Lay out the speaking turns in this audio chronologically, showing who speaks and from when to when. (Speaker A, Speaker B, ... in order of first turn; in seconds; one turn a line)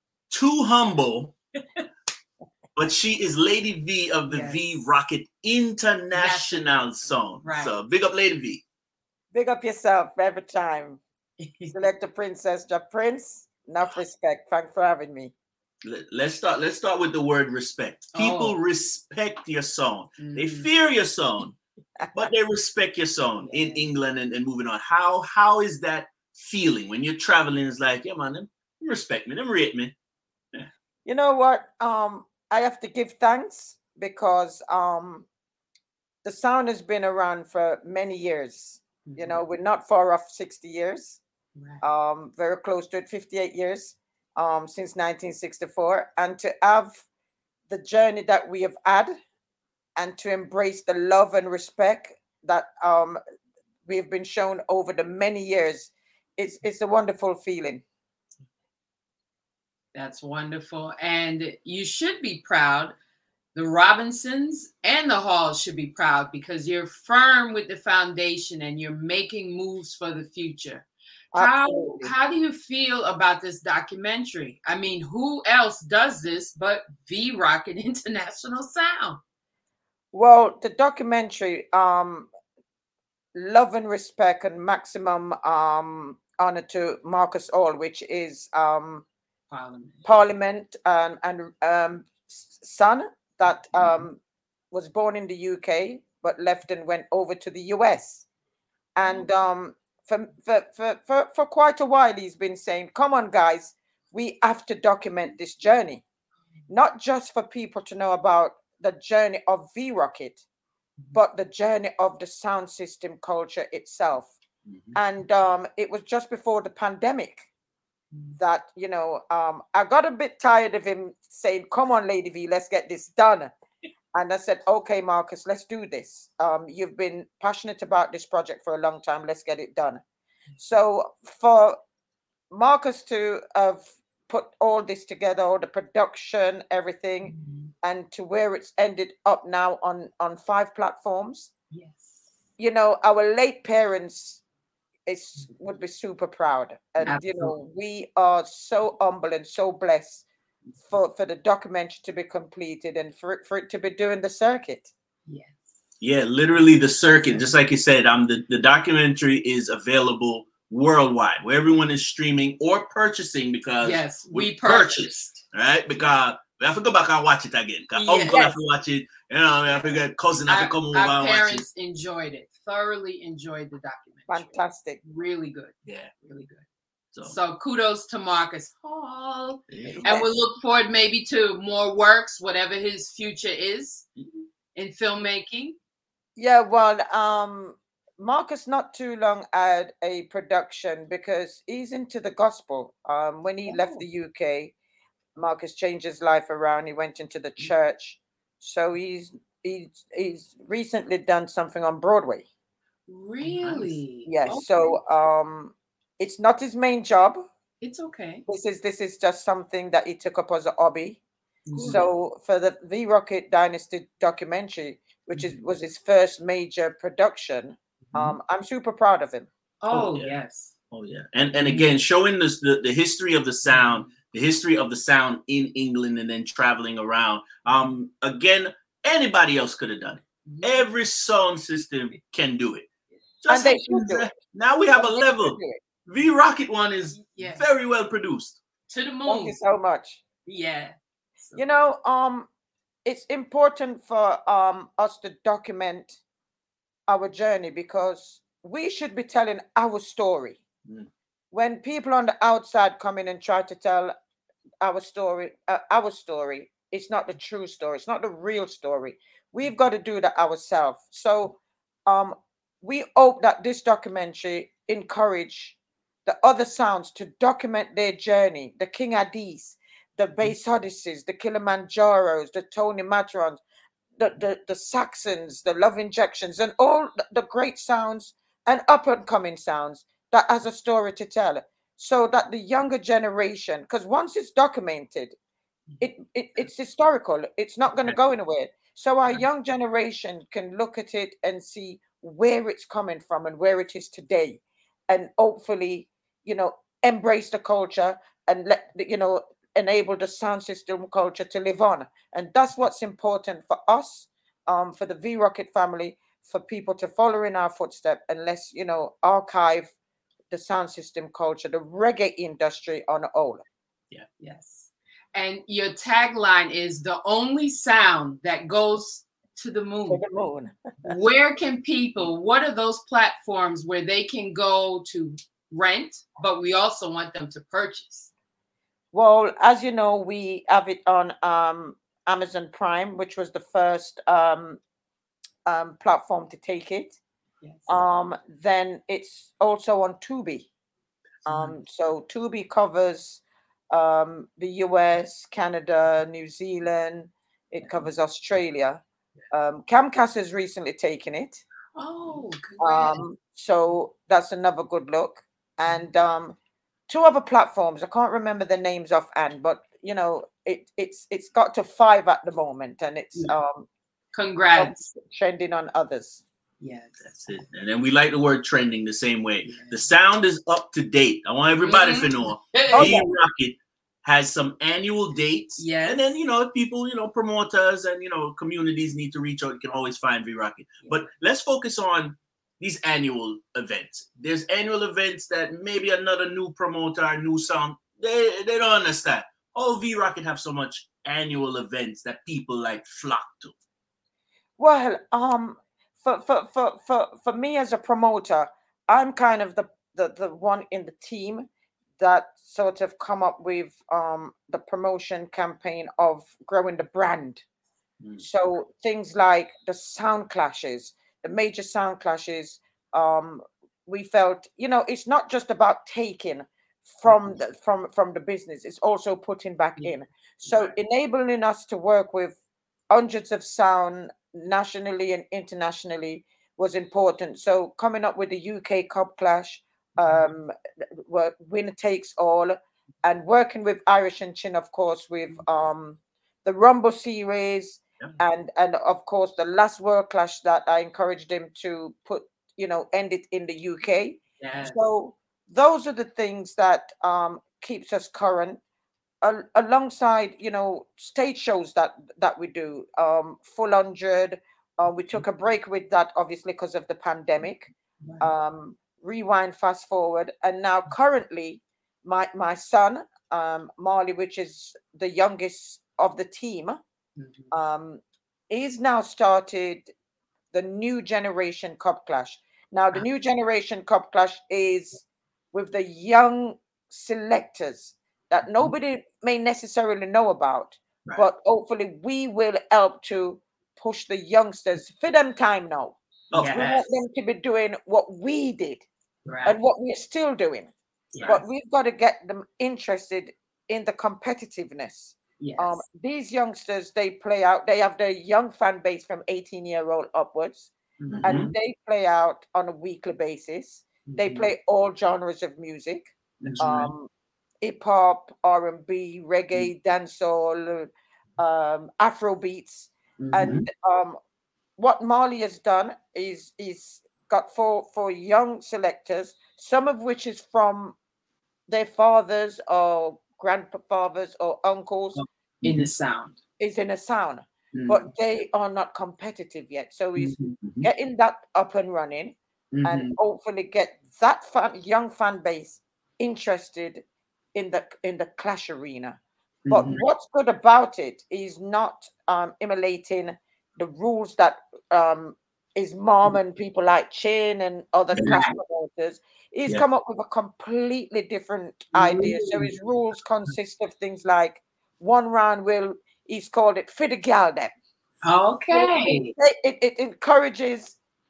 Speaker A: 0.3-1.3
Speaker A: 2.8-8.6
Speaker B: 4.3-4.8
Speaker B: 6.1-6.7
Speaker B: 7.4-7.8
Speaker C: 9.3-11.0
Speaker B: 11.4-11.7
Speaker C: 11.7-15.3
Speaker A: 15.8-21.6
Speaker B: 18.1-18.6
Speaker B: 20.2-20.7
Speaker A: 22.1-29.9
Speaker B: 23.4-23.8
Speaker C: 31.0-35.3
Speaker C: 36.2-41.2
Speaker B: 39.0-39.4
Speaker B: 41.5-41.8
Speaker C: 41.8-47.0
Speaker C: 47.7-49.1
Speaker C: 50.0-53.2
Speaker C: 53.9-57.8
Speaker B: 59.9-62.9
Speaker B: 63.5-79.2
Speaker C: 71.3-72.1
Speaker C: 80.1-82.3
Speaker C: 83.3-89.0
Speaker B: 89.5-90.1
Speaker C: 90.0-94.2
Speaker C: 94.7-98.2
Speaker C: 99.0-106.0
Speaker C: 106.7-110.4
Speaker C: 111.1-114.3
Speaker A: 114.7-115.0
Speaker C: 114.9-117.5
Speaker B: 118.1-118.4
Speaker C: 118.4-123.5
Speaker C: 124.1-130.0
Speaker C: 130.6-131.8
Speaker C: 132.5-141.5
Speaker B: 137.2-137.7
Speaker B: 141.7-142.2
Speaker C: 142.6-144.4
Speaker C: 145.1-150.2
Speaker B: 147.0-147.5
Speaker C: 150.8-154.9
Speaker B: 155.2-155.7
Speaker A: 156.0-171.6
Speaker B: 157.1-157.5
Speaker B: 163.8-165.4
Speaker B: 167.9-168.5
Speaker B: 170.5-176.6
Speaker C: 174.3-175.0
Speaker A: 175.8-176.1
Speaker B: 177.2-184.1
Speaker A: 179.7-180.1
Speaker C: 179.9-180.3
Speaker B: 184.7-185.8
Speaker C: 186.3-194.7
Speaker B: 193.6-194.0
Speaker C: 195.3-202.4
Speaker B: 203.1-205.0
Speaker A: 203.4-204.0
Speaker C: 204.2-207.4
Speaker B: 207.8-208.4
Speaker C: 208.4-211.2
Speaker B: 211.7-212.0
Speaker A: 211.7-212.1
Speaker C: 211.9-219.5
Speaker B: 219.8-220.7
Speaker A: 219.9-220.3
Speaker A: 220.9-232.9
Speaker B: 221.6-221.9
Speaker B: 223.7-223.9
Speaker B: 230.4-230.9
Speaker A: 233.4-238.6
Speaker C: 233.5-234.3
Speaker C: 234.9-235.8
Speaker B: 237.2-237.7
Speaker B: 238.9-239.6
Speaker C: 239.2-240.2
Speaker B: 240.4-241.8
Speaker C: 241.6-242.5
Speaker C: 243.0-246.2
Speaker C: 247.1-250.6
Speaker C: 251.5-254.1
Speaker C: 254.8-273.6
Speaker C: 274.2-285.3
Speaker C: 286.0-309.9
Speaker C: 310.5-313.6
Speaker B: 314.4-320.2
Speaker C: 320.1-321.1
Speaker B: 321.0-328.3
Speaker C: 329.1-334.8
Speaker C: 335.6-337.2
Speaker B: 337.6-337.9
Speaker C: 337.9-340.7
Speaker C: 341.4-351.6
Speaker B: 351.9-353.2
Speaker C: 352.8-356.6
Speaker C: 357.1-363.9
Speaker B: 364.3-365.0
Speaker C: 364.8-366.4
Speaker B: 366.8-367.6
Speaker A: 367.2-393.7
Speaker B: 369.6-370.1
Speaker B: 371.8-373.2
Speaker C: 372.9-373.2
Speaker B: 375.8-376.4
Speaker C: 394.8-407.6
Speaker C: 408.4-422.6
Speaker C: 423.1-430.7
Speaker C: 431.3-448.8
Speaker B: 444.6-445.0
Speaker C: 449.4-467.0
Speaker B: 458.2-458.5
Speaker B: 467.4-467.8
Speaker C: 467.7-470.1
Speaker C: 470.7-486.2
Speaker A: 486.5-486.8
Speaker B: 486.5-487.1
Speaker C: 486.7-489.0
Speaker B: 489.4-489.8
Speaker C: 489.6-490.9
Speaker B: 491.3-491.6
Speaker C: 491.4-500.9
Speaker B: 495.6-496.0
Speaker B: 501.2-501.7
Speaker A: 501.3-501.7
Speaker C: 501.4-507.3
Speaker B: 504.2-504.7
Speaker B: 506.6-507.1
Speaker A: 506.6-507.1
Speaker C: 507.8-514.4
Speaker B: 513.4-513.9
Speaker C: 515.0-521.1
Speaker C: 521.9-525.4
Speaker B: 525.3-526.6
Speaker A: 525.8-526.1
Speaker C: 526.8-537.2
Speaker B: 527.9-528.2
Speaker B: 530.4-530.8
Speaker A: 530.8-531.1
Speaker B: 532.9-533.4
Speaker C: 537.7-557.9
Speaker B: 539.9-540.2
Speaker B: 548.3-548.7
Speaker B: 552.1-552.9
Speaker B: 558.4-559.5
Speaker C: 558.9-561.2